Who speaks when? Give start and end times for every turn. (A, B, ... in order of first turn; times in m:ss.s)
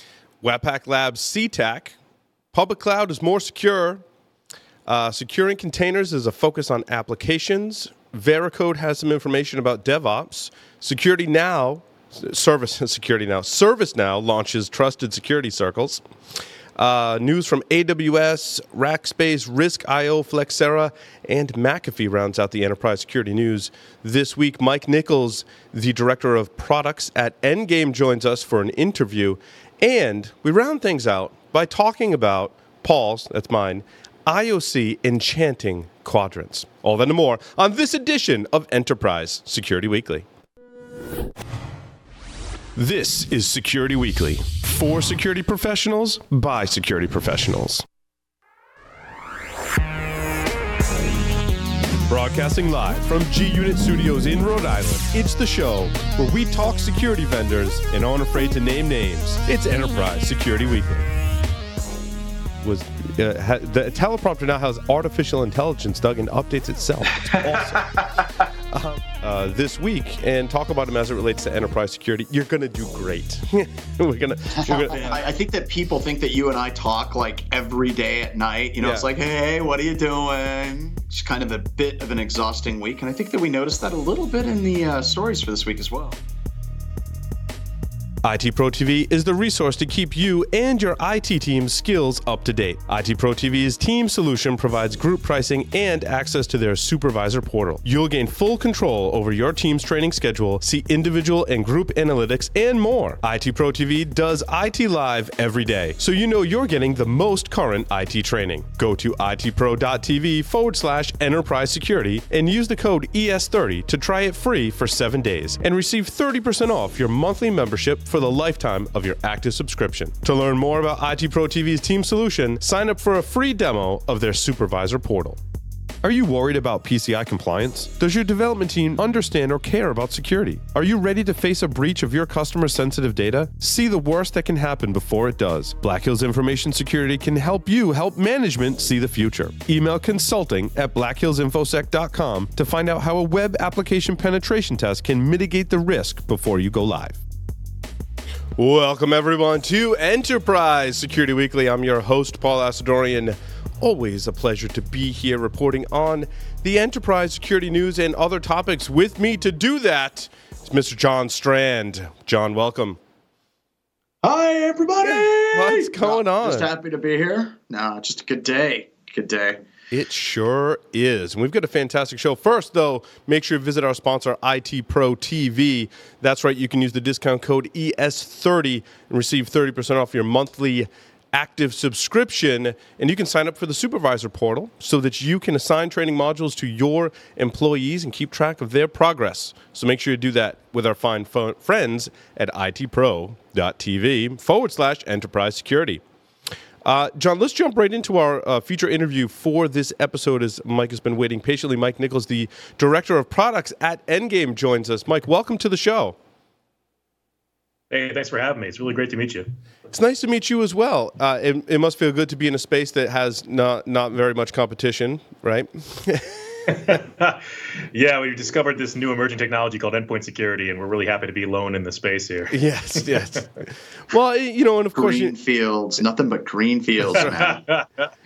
0:00.4-0:01.9 A
0:02.5-0:04.0 A
0:04.8-0:16.0 A
0:16.8-0:40.2 A
0:42.7-0:47.8 A
0:52.1-1:01.1 A
1:02.6-1:08.0 A
1:08.7-1:15.1 A
1:14.5-1:26.2 B
1:18.8-1:19.1 A
1:28.2-2:05.4 A
2:06.0-2:27.2 A
2:28.6-2:43.0 A
2:44.2-2:49.6 B
2:45.0-2:46.7 A
2:49.9-3:16.0 A
3:16.8-3:26.2 A
3:27.9-3:29.5 C
3:29.9-3:36.7 A
3:36.7-3:43.2 C
3:42.5-3:45.3 A
3:44.9-3:47.6 B
3:47.2-3:47.9 C